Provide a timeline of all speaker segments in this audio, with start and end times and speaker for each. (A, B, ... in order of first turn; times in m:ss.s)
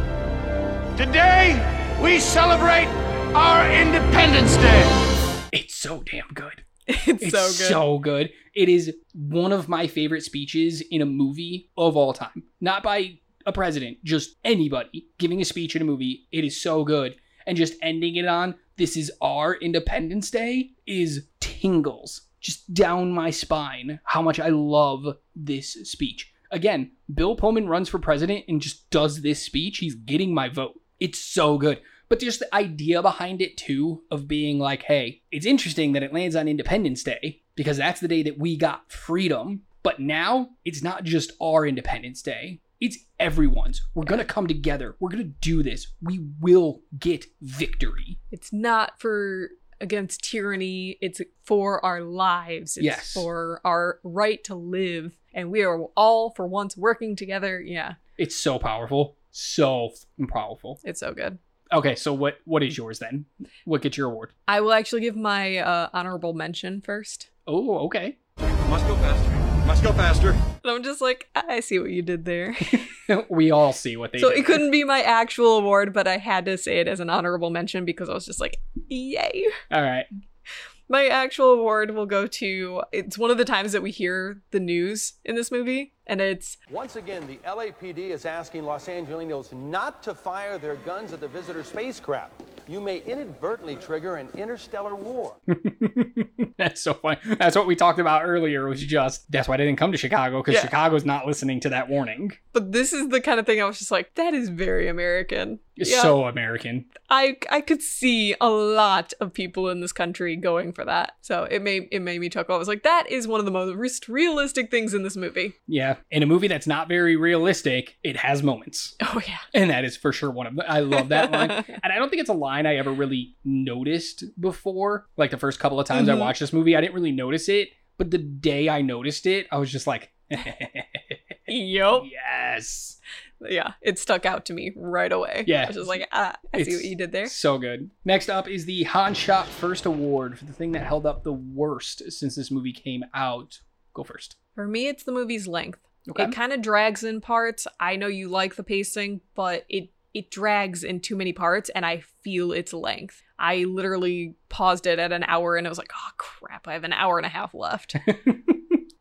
0:01.0-0:04.9 A
0:05.5-0:06.6 B
0:06.9-0:07.8 C
0:07.2-0:48.2 B
0:48.3-0:58.0 C
0:52.8-0:53.3 B
0:58.2-1:00.8 B
1:00.8-1:01.4 C
1:01.7-1:04.3 B
1:04.5-1:07.3 C
1:07.5-1:08.2 B
1:08.4-1:10.4 D
1:10.6-1:13.0 C
1:12.6-1:14.7 B
1:14.2-1:19.6 C
1:19.7-1:20.1 B
1:20.9-1:26.6 C
1:26.7-1:35.4 E
1:35.5-1:42.4 B
1:42.5-1:46.2 C
1:45.8-1:46.9 B
1:47.0-1:55.5 C
1:55.7-1:59.0 B
1:59.0-1:59.5 C
1:59.5-2:11.4 B
2:01.2-2:01.8 C
2:05.9-2:06.3 C
2:11.5-2:12.1 C
2:12.0-2:13.0 B
2:13.4-2:17.3 C
2:15.4-2:16.0 B
2:16.6-2:24.4 B
2:24.6-2:38.1 C
2:26.1-2:26.4 B
2:38.0-2:38.8 B